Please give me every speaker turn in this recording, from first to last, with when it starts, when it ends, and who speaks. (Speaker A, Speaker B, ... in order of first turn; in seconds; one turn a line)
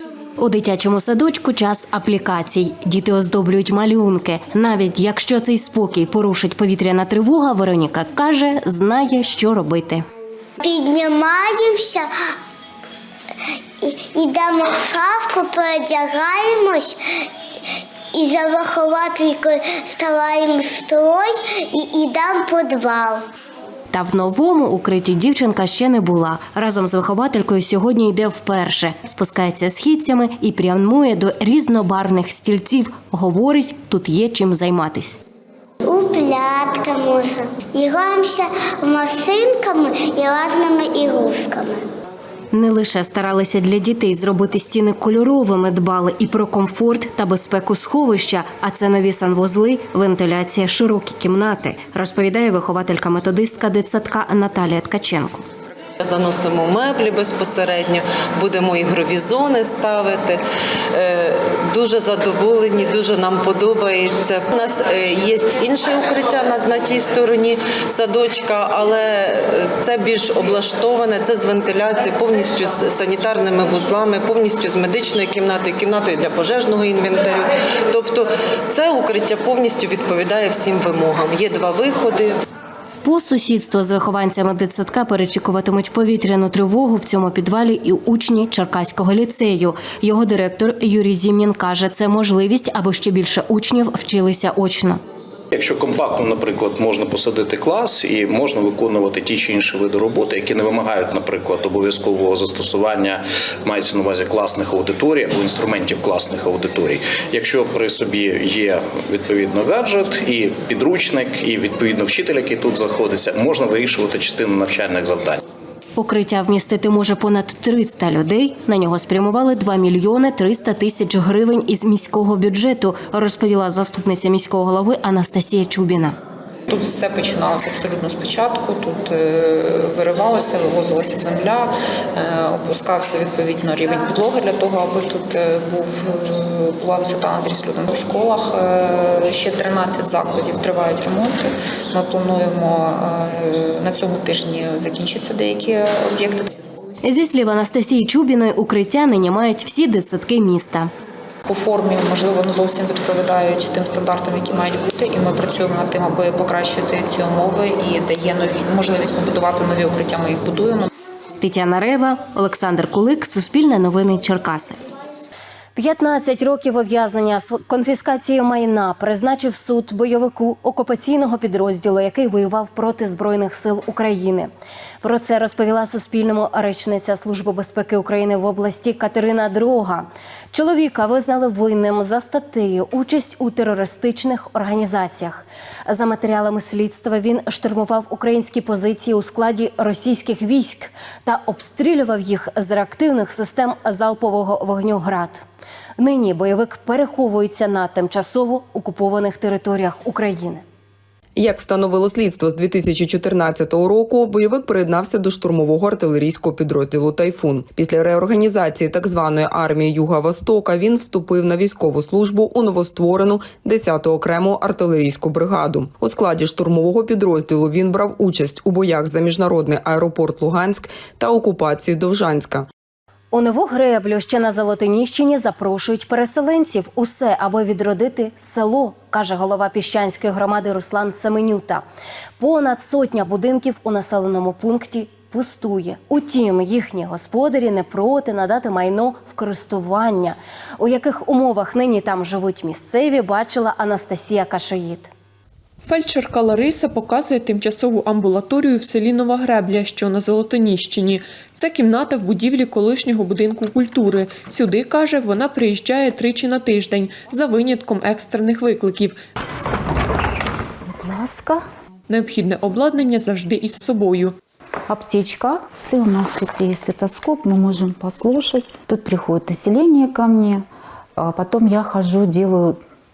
Speaker A: 0.4-10.0
Speaker B: 10.6-12.1
Speaker B: 13.8-17.0
Speaker B: 18.1-23.2
Speaker A: 23.9-35.2
Speaker B: 35.8-41.9
Speaker A: 42.5-55.4
Speaker C: 56.0-60.4
Speaker C: 60.9-82.3
Speaker A: 83.0-95.0
Speaker D: 95.5-115.4
Speaker A: 116.0-126.1
Speaker E: 126.7-146.4
Speaker A: 147.0-150.9
Speaker E: 151.5-160.9
Speaker A: 161.4-164.8
Speaker A: 165.7-195.4
Speaker A: 196.0-200.6
Speaker F: 201.4-222.5
Speaker A: 223.3-231.8
Speaker A: 232.4-245.1
Speaker G: 245.8-259.2
Speaker H: 260.9-261.6
Speaker G: 262.1-264.3
Speaker H: 264.9-270.6
Speaker H: 271.2-272.8